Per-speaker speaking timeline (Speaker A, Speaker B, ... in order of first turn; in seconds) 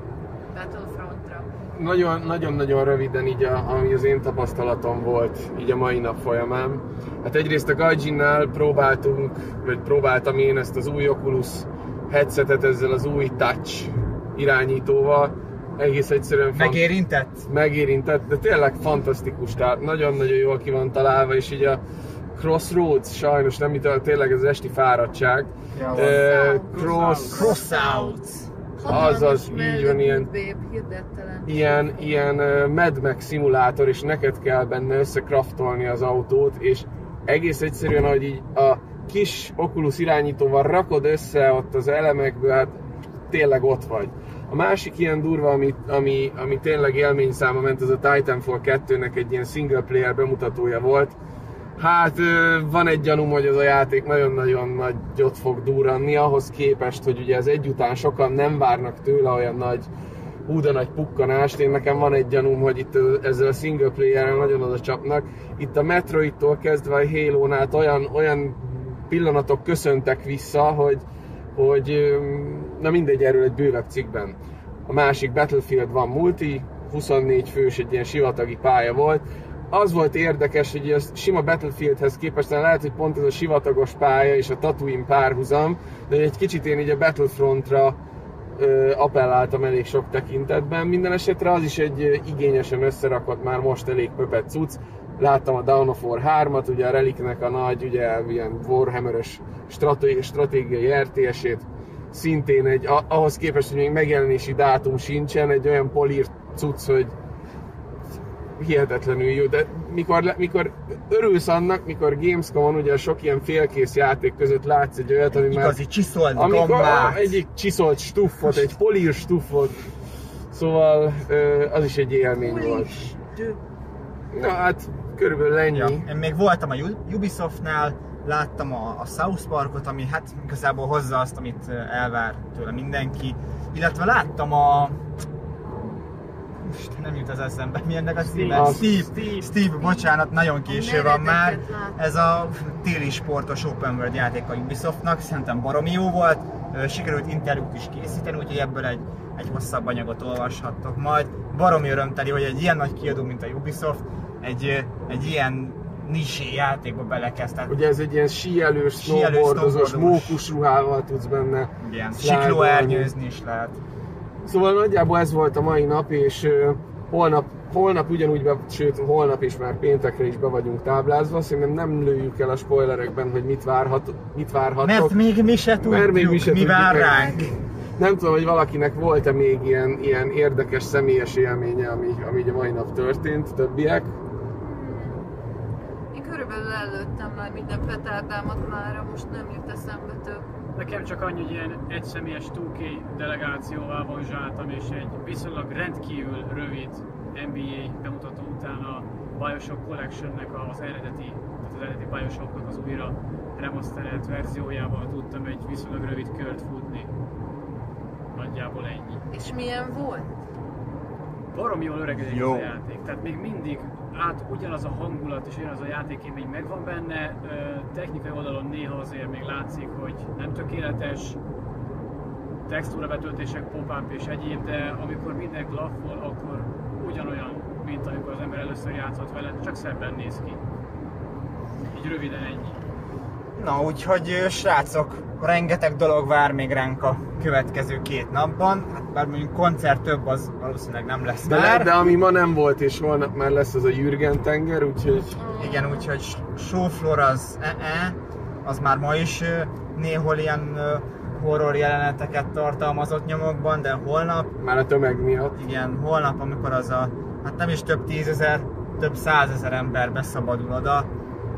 Speaker A: 0.5-1.5, 25.8-28.2, 28.8-32.1, 122.4-123.6, 139.8-140.1, 140.7-142.0, 177.1-177.4, 184.6-185.2, 186.1-190.4, 209.3-210.3, 245.3-246.1
Speaker B: 1.7-16.9, 17.5-21.8, 22.3-27.5, 28.8-30.3, 31.5-42.8, 43.3-51.1, 51.8-59.9, 60.5-71.0, 71.5-88.0, 88.5-107.1, 108.6-115.8, 116.3-119.8, 120.5-122.9, 124.3-126.1, 138.5-139.1, 157.7-163.1, 164.4-175.2, 175.8-177.3, 178.0-184.2, 241.4-245.4, 254.6-255.6
Speaker C: 16.5-17.4, 25.7-26.1, 27.3-28.5, 115.3-117.4, 125.7-135.0, 136.6-157.7, 159.0-160.4, 161.8-163.8, 174.8-177.6, 212.2-212.8, 233.6-242.1, 245.6-254.5, 255.5-261.1
Speaker D: 26.7-27.5, 138.2-139.5, 190.7-207.1, 208.3-209.2, 211.5-221.4, 222.7-230.6, 231.9-232.8